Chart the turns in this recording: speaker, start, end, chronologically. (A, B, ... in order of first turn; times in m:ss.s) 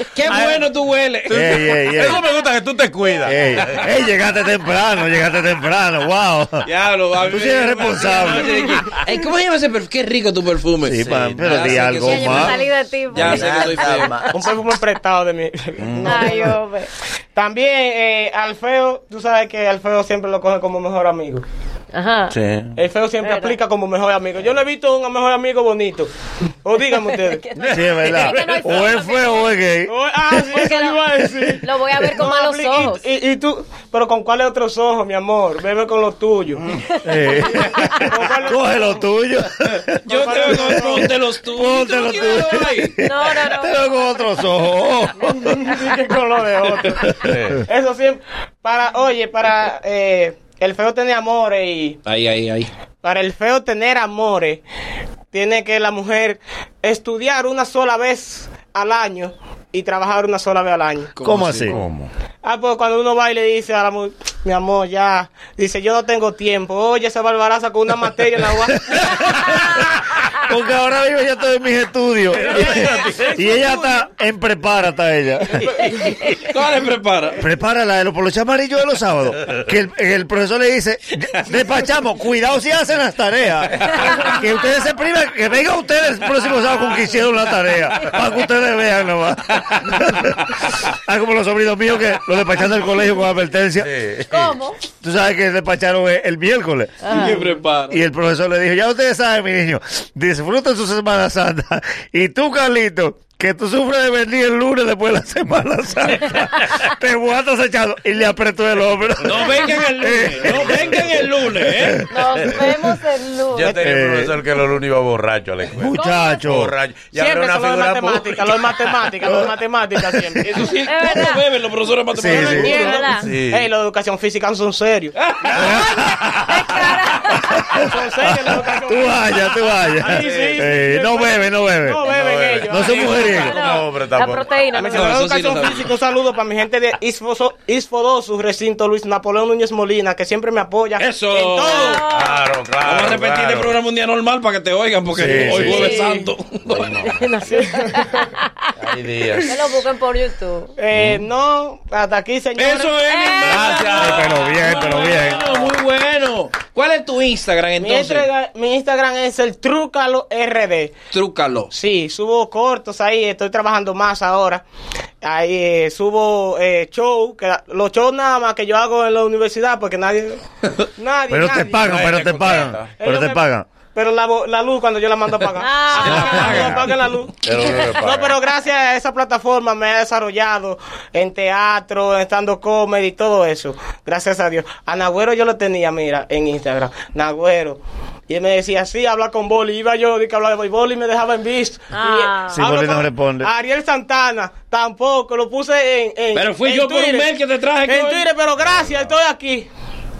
0:00.2-0:01.8 A
0:00.3-0:00.7 B
0:01.3-0:02.2 C
0:01.9-0:04.0 B
0:03.2-0:06.6 C
0:06.6-0:14.2 A
0:07.3-0:08.7 C
0:10.8-0:12.6 C
0:11.0-0:11.9 B
0:12.0-0:14.5 D
0:13.2-0:14.2 B
0:14.3-0:16.6 E
0:15.8-0:16.3 B
0:16.0-0:16.9 D
0:17.4-0:21.4 E
0:21.9-0:22.4 D
0:22.3-0:22.7 B
0:22.8-0:26.1 E
0:23.2-0:23.6 D
0:26.6-0:27.5 E
0:27.0-0:29.6 D
0:27.6-0:29.0 B
0:27.6-0:29.9 C
0:29.9-0:36.7 E
0:30.4-0:31.1 D
0:31.6-0:33.1 D
0:37.0-0:40.9 C
0:37.2-0:38.0 D
0:38.1-0:39.0 E
0:40.0-0:42.9 A
0:40.1-0:41.1 E
0:41.5-0:45.7 C
0:43.0-0:43.8 D
0:45.4-0:47.1 E
0:47.2-0:47.6 B
0:47.7-0:52.0 E
0:52.0-0:52.7 A
0:53.0-0:54.6 E
0:55.3-1:01.1 E
1:01.2-1:01.8 A
1:01.2-1:01.8 C
1:01.7-1:02.1 B
1:02.4-1:08.8 E
1:10.4-1:15.8 C
1:12.5-1:13.7 B
1:12.8-1:13.8 A
1:15.8-1:17.4 A
1:17.4-1:33.9 C
1:33.8-1:34.3 B
1:34.3-1:34.8 D
1:35.0-1:37.2 C
1:37.0-1:37.4 D
1:37.1-1:38.0 A
1:37.9-1:52.6 C
1:49.2-1:52.0 A
1:50.4-1:51.2 B
1:52.1-1:53.8 D
1:53.5-1:58.8 B
1:53.6-1:54.4 C
1:55.8-1:56.8 C
1:56.0-1:56.4 D
1:57.1-2:00.4 E
1:59.2-2:00.4 C
2:00.4-2:03.0 A
2:00.8-2:01.4 D
2:02.1-2:02.8 C
2:02.4-2:05.2 E
2:02.5-2:03.3 D
2:03.1-2:03.7 B
2:05.1-2:05.8 A
2:05.6-2:06.1 C
2:05.6-2:08.0 D
2:07.6-2:08.2 C
2:07.9-2:09.4 E
2:08.8-2:12.1 C
2:10.0-2:13.2 E
2:10.2-2:10.5 A
2:12.0-2:14.7 B
2:12.6-2:13.7 C
2:13.2-2:15.2 D
2:14.8-2:22.0 E
2:14.9-2:16.0 A
2:21.0-2:22.1 A
2:21.7-2:22.4 D
2:22.0-2:23.8 B
2:22.8-2:26.8 A
2:25.2-2:26.0 C
2:25.6-2:26.0 D
2:26.7-2:27.3 B
2:27.0-2:28.7 D
2:27.5-2:28.1 E
2:28.8-2:29.6 B
2:29.4-2:30.7 D
2:30.8-2:33.0 E
2:32.6-2:38.3 A
2:33.0-2:33.9 D
2:33.4-2:34.4 B
2:34.0-2:35.5 C
2:37.8-2:40.9 E
2:41.1-2:41.7 A
2:41.7-2:44.6 E
2:45.2-2:50.4 E
2:51.0-2:52.0 E
2:51.3-2:53.7 C
2:51.8-2:52.9 B
2:53.0-2:57.3 E
2:55.6-2:56.8 D
2:56.0-2:56.8 B
2:56.0-2:56.8 C
2:56.0-2:56.8 A
2:57.4-2:58.4 B
2:57.6-2:57.9 D
2:58.0-3:17.3 E
3:11.9-3:12.7 D
3:12.5-3:13.5 C
3:16.3-3:18.3 A
3:17.9-3:19.7 E
3:18.6-3:19.1 B